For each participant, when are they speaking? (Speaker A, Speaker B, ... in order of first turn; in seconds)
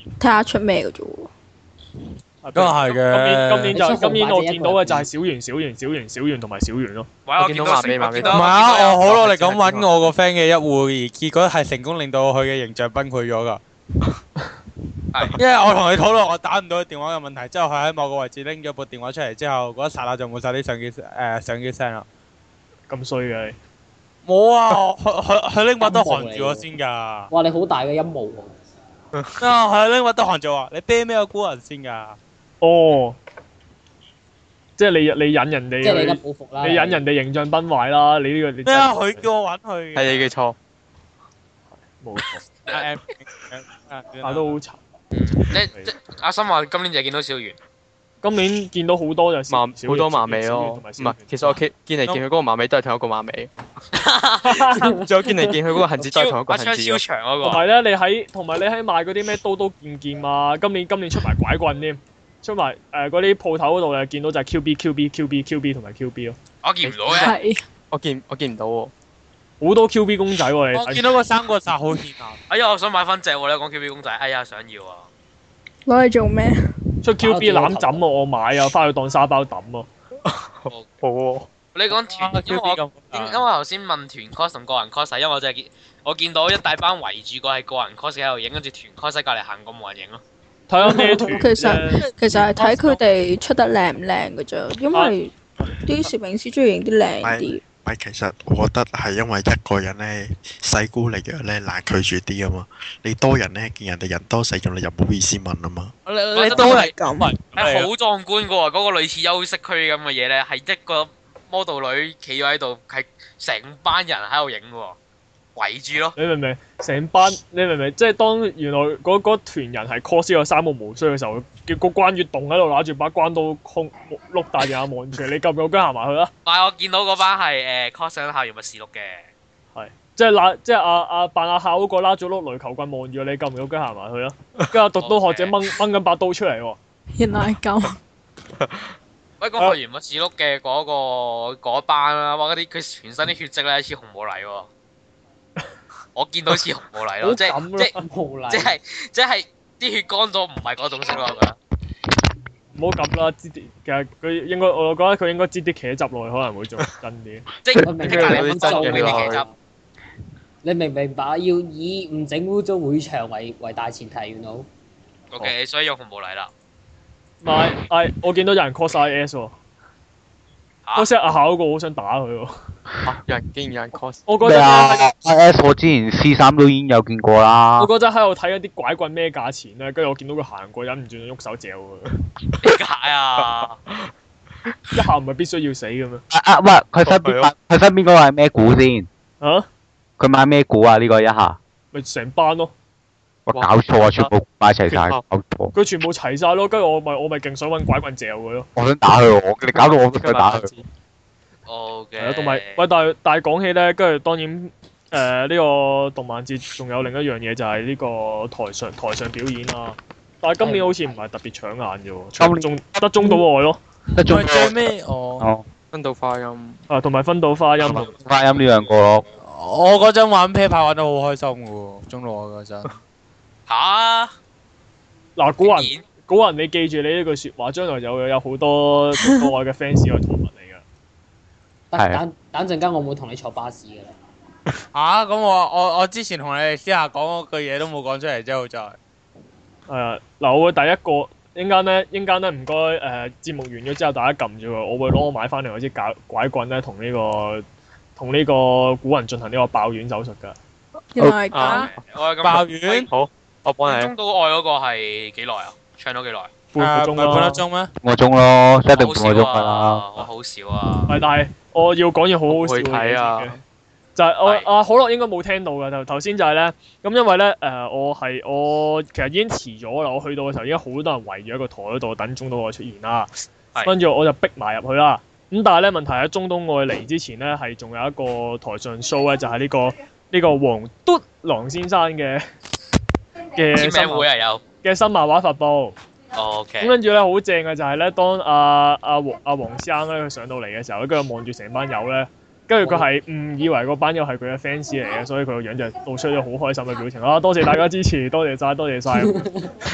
Speaker A: 0.2-1.3, 67.1-67.6, 75.9-76.6, 91.4-97.6, 106.5-107.3, 137.2-138.0, 251.2-251.9
Speaker B: 2.4-7.1, 22.9-23.6, 32.6-33.2, 34.8-39.3, 42.0-42.5, 44.2-44.8, 48.2-51.6, 54.5-55.0, 57.4-66.4, 69.6-71.1, 77.0-79.9, 90.7-92.0, 94.9-95.8, 116.2-126.3, 129.7-136.8, 147.2-148.0, 152.8-157.5, 167.4-169.6, 171.0-172.5, 174.3-175.1, 177.8-182.1, 184.9-186.2, 189.4-189.7, 191.9-192.7, 195.7-198.7, 202.2-213.8, 216.9-218.1, 225.4-230.8, 239.9-247.7, 248.2-250.6, 256.7-257.6, 261.1-263.6, 264.2-273.3, 273.8-282.4, 283.6-284.3, 284.8-286.0, 286.8-299.4
Speaker C: 2.5-3.8, 8.2-13.6, 15.4-22.1, 24.2-27.3, 29.4-32.2, 38.7-40.3, 42.7-44.6, 70.7-72.4, 81.9-83.4, 92.0-93.0, 106.3-107.9, 214.3-215.5, 219.4-222.9, 234.9-239.0, 252.4-253.1, 256.8-257.9
Speaker D: 3.7-5.1, 25.8-26.7, 27.3-28.5, 35.8-37.0, 54.7-55.5, 77.2-78.0, 90.9-91.3, 148.0-148.8, 157.8-159.6, 160.6-164.7, 231.9-234.2, 292.8-293.1, 299.1-299.7
Speaker E: 7.3-9.2, 45.1-47.6, 53.9-54.6, 56.0-57.6, 66.6-67.3, 72.5-75.1, 81.7-90.2, 106.1-106.9, 107.5-115.0, 115.6-116.2, 126.5-129.3, 135.0-135.5, 139.4-144.7, 146.2-147.9, 148.5-151.6, 157.7-159.4, 165.3-166.5, 182.6-183.8, 201.7-202.8, 223.7-224.3, 225.6-226.0, 251.6-253.1, 253.9-256.5, 259.0-261.2, 283.7-284.6, 286.4-286.9
Speaker F: 7.4-9.9, 29.1-29.4, 40.0-40.6, 49.5-53.5, 55.0-57.0, 66.8-67.4, 67.9-68.9, 80.2-81.5, 138.6-138.9, 158.0-159.4, 173.1-174.3, 183.4-184.1, 187.0-187.5, 193.5-194.3, 194.9-195.2, 199.7-200.9, 215.9-216.8, 218.0-218.6, 251.5-251.9, 253.1-254.1, 262.5-263.6
Speaker G: 97.2-105.9
Speaker H: 174.4-177.9, 186.3-189.1, 190.2-191.6, 193.5-195.7, 198.8-200.8, 212.4-213.4, 214.2-215.7, 217.8-219.2, 258.0-260.0